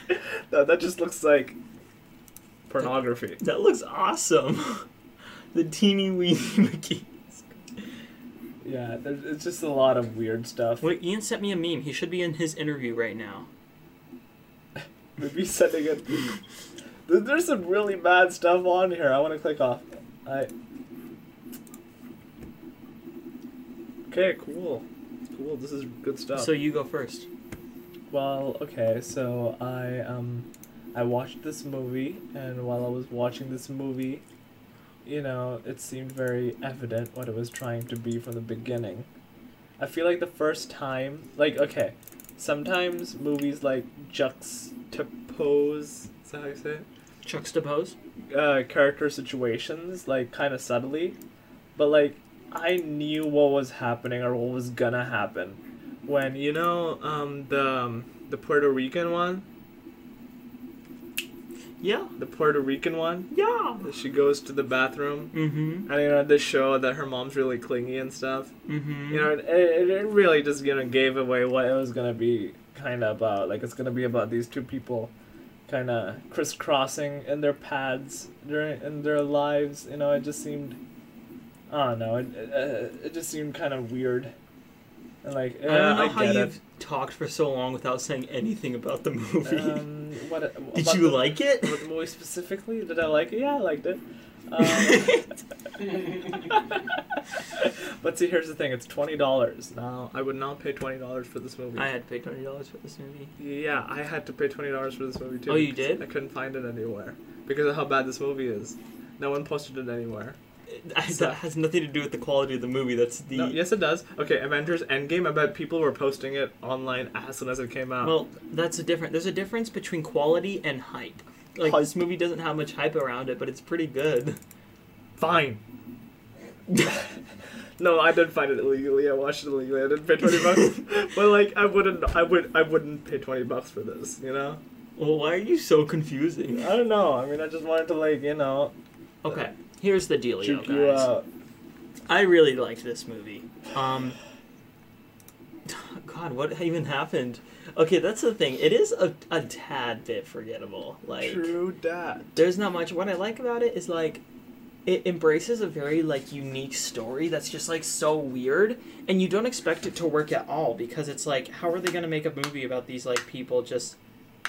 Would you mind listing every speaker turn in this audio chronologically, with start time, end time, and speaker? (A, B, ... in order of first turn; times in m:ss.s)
0:00.5-0:01.6 A
0:02.7-0:03.4 A
0:02.8-0:04.8 B
0:05.5-0:07.5 B
0:08.6-0:10.9 A
0:10.8-0:13.5 B
0:15.2-0:16.4 A
0:17.1-0:20.5 A
0:24.1-0:26.6 A
0:26.3-0:27.3 B
0:28.1-0:34.2 A
0:35.0-0:39.1 A
0:39.8-0:46.9 A
0:47.2-0:48.0 B
0:48.3-0:51.2 A
0:51.8-0:59.4 A
1:01.8-1:02.1 B
1:02.2-1:03.3 A
1:03.3-1:03.8 B
1:03.8-1:08.5 A
1:05.3-1:05.9 B
1:08.7-1:09.3 B
1:09.1-1:15.1 A
1:15.7-1:20.8 A
1:21.7-1:24.3 A
1:25.2-1:26.5 A
1:25.6-1:29.8 B
1:29.4-1:35.2 A
1:30.7-1:31.8 B
1:34.6-1:35.2 B
1:37.6-1:41.9 A
1:41.8-1:43.3 B
1:43.4-1:50.4 A
1:45.5-1:46.0 B
1:50.7-1:53.6 B
1:51.1-1:51.4 A
1:53.3-1:58.2 A
1:58.0-2:04.4 B
2:01.6-2:02.0 A
2:05.2-2:05.6 A
2:07.8-2:14.6 A
2:15.0-2:16.7 B
2:16.5-2:18.7 A
2:19.2-2:21.1 B
2:20.4-2:21.3 A
2:22.1-2:24.2 B
2:25.7-2:31.5 B
2:31.2-2:32.3 A
2:32.4-2:34.2 B
2:34.8-2:44.0 B